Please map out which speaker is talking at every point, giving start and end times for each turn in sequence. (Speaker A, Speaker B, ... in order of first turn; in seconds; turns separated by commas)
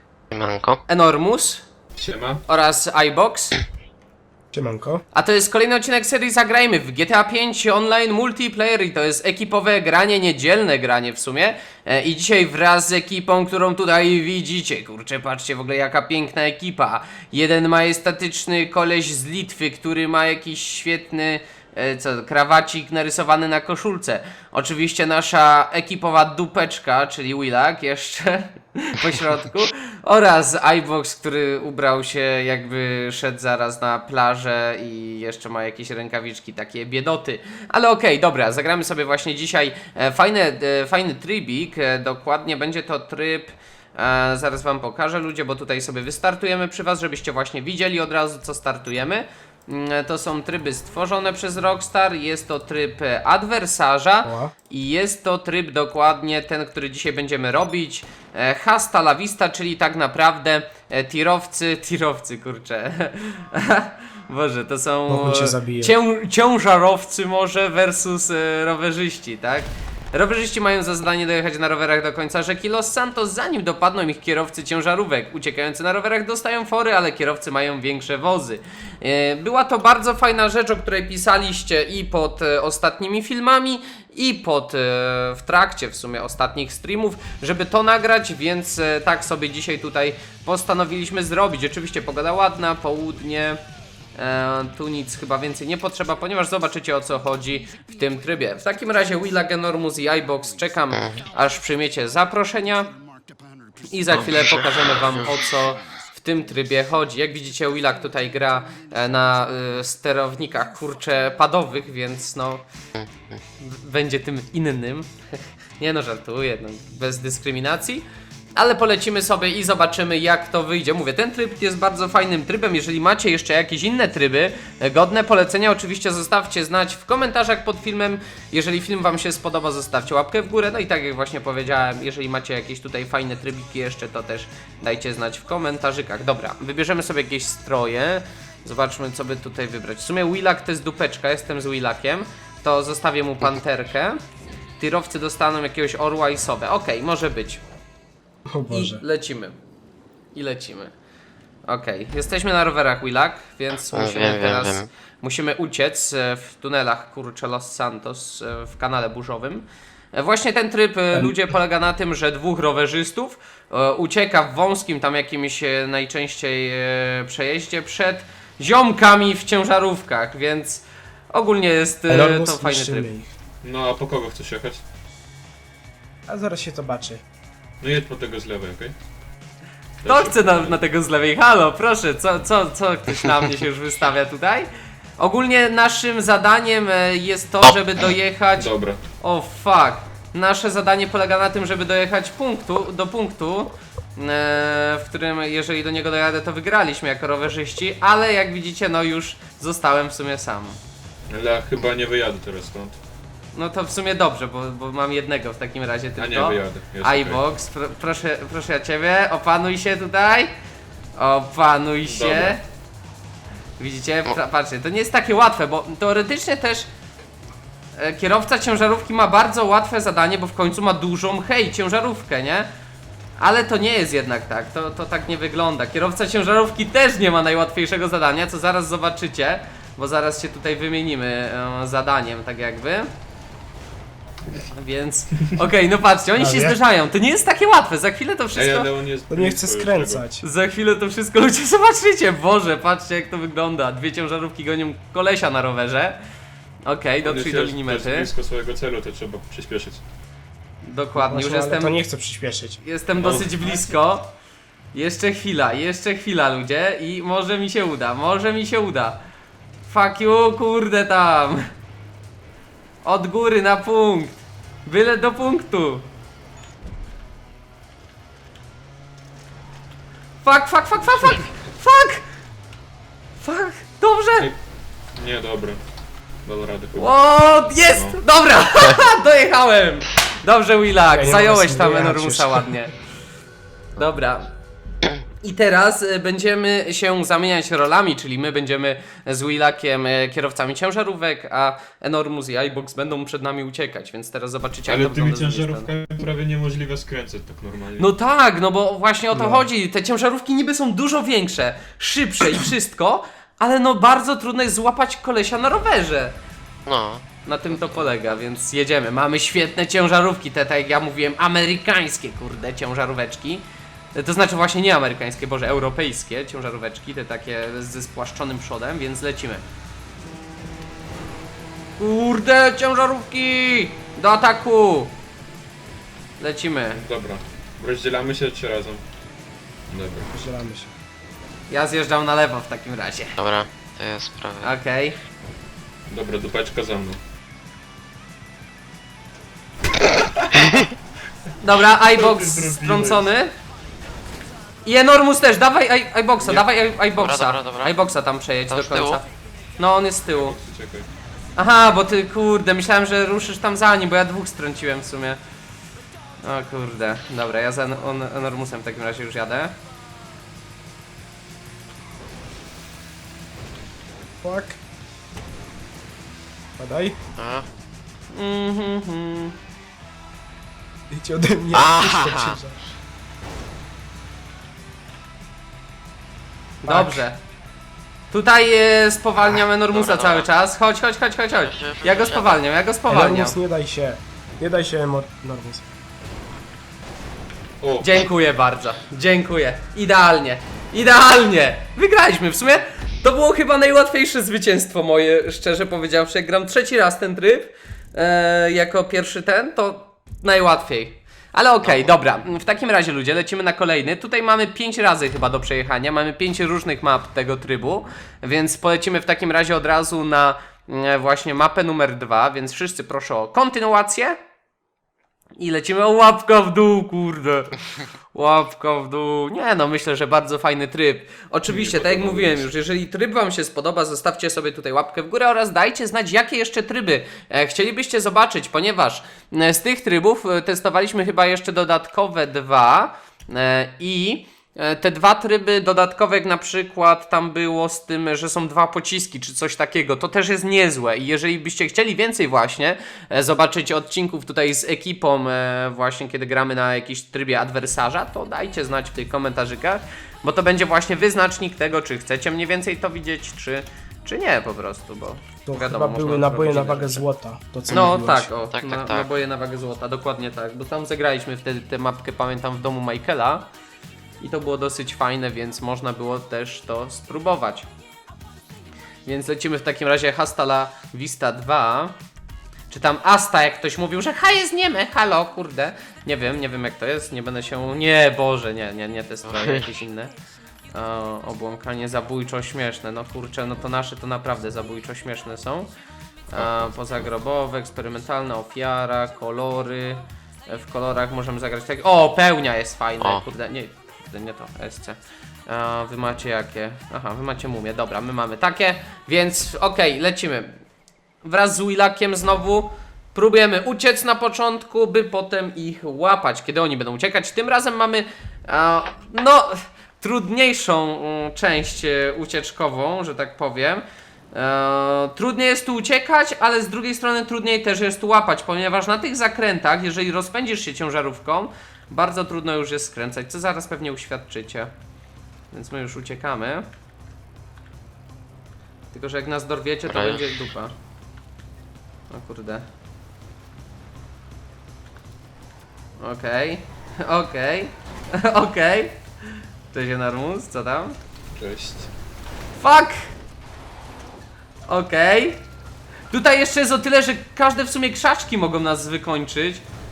Speaker A: 0.3-0.8, Speaker B: 0.9-1.6, Speaker C: 2.0-2.4, Speaker B: 2.5-3.6, Speaker D: 4.5-5.0, Speaker B: 5.1-93.6, Speaker D: 54.2-54.5, Speaker D: 65.1-65.9, Speaker B: 94.2-102.9, Speaker B: 103.8-112.6, Speaker A: 104.2-105.2, Speaker A: 113.0-113.4, Speaker B: 113.6-118.0, Speaker B: 118.5-144.2, Speaker B: 144.8-147.6, Speaker D: 148.5-149.0, Speaker B: 148.7-149.6, Speaker B: 150.3-150.9, Speaker B: 151.7-173.1, Speaker A: 153.9-154.9, Speaker D: 161.1-161.5, Speaker D: 172.1-173.3, Speaker C: 173.6-174.8, Speaker D: 176.3-177.2, Speaker C: 177.8-178.9, Speaker C: 180.0-180.8, Speaker B: 180.0-188.7, Speaker C: 188.6-189.0, Speaker B: 189.2-200.8, Speaker C: 201.3-203.0, Speaker B: 203.6-210.5, Speaker C: 206.2-207.4, Speaker B: 211.2-212.6, Speaker C: 212.1-212.6, Speaker B: 213.8-216.9, Speaker B: 218.0-222.7, Speaker B: 223.4-233.1, Speaker B: 234.6-238.9, Speaker D: 236.4-236.8, Speaker C: 238.5-240.2, Speaker D: 239.3-240.4, Speaker B: 240.4-246.2, Speaker B: 246.8-248.3, Speaker C: 247.2-250.0, Speaker B: 250.8-252.0, Speaker D: 251.2-252.8, Speaker B: 252.8-254.3, Speaker C: 253.2-253.9, Speaker B: 254.9-259.2, Speaker B: 259.9-261.7, Speaker B: 263.0-266.1, Speaker B: 270.4-272.2, Speaker B: 273.4-274.5, Speaker C: 275.1-275.8, Speaker C: 276.4-277.2, Speaker B: 277.0-282.9, Speaker C: 277.7-278.2, Speaker D: 281.1-282.8, Speaker B: 284.0-284.5, Speaker B: 285.4-295.9, Speaker C: 294.9-298.1, Speaker B: 298.0-306.4, Speaker D: 299.3-299.7, Speaker A: 306.9-308.5, Speaker B: 307.4-319.6, Speaker B: 322.0-325.1, Speaker B: 326.4-327.0, Speaker C: 326.9-329.0, Speaker C: 329.9-330.3, Speaker D: 330.3-330.9, Speaker B: 331.7-333.4, Speaker A: 333.4-334.8, Speaker B: 334.6-335.2, Speaker C: 336.1-337.2, Speaker C: 340.0-340.7, Speaker B: 341.6-343.5, Speaker C: 341.7-343.3, Speaker B: 344.9-349.2, Speaker A: 347.1-348.0, Speaker A: 348.7-349.2, Speaker B: 349.8-350.6, Speaker C: 350.3-351.1, Speaker B: 351.6-355.4, Speaker B: 356.4-359.8, Speaker D: 364.4-364.8, Speaker D: 366.8-367.2, Speaker A: 367.4-367.7, Speaker B: 368.3-369.6, Speaker D: 371.1-372.8, Speaker A: 371.7-372.6, Speaker D: 376.8-377.3, Speaker B: 376.8-377.4, Speaker B: 378.3-383.6, Speaker A: 379.9-380.5, Speaker A: 381.6-382.6, Speaker D: 383.1-385.9, Speaker C: 387.8-388.2, Speaker B: 388.0-414.4, Speaker B: 415.6-417.8, Speaker B: 418.3-457.3, Speaker C: 421.7-422.7, Speaker D: 455.7-458.5, Speaker B: 457.9-463.7, Speaker A: 458.7-459.3, Speaker B: 464.4-467.9, Speaker B: 469.3-472.1, Speaker B: 472.9-480.3, Speaker A: 479.5-479.9, Speaker B: 480.9-485.9, Speaker B: 486.5-500.8, Speaker C: 486.6-486.9, Speaker B: 501.4-524.9, Speaker B: 525.7-526.9, Speaker B: 529.1-530.9, Speaker A: 530.1-530.6, Speaker B: 532.3-532.9, Speaker B: 536.2-539.2, Speaker B: 539.9-541.2, Speaker C: 541.5-542.1, Speaker B: 542.8-543.3, Speaker B: 544.9-545.6, Speaker B: 546.3-549.8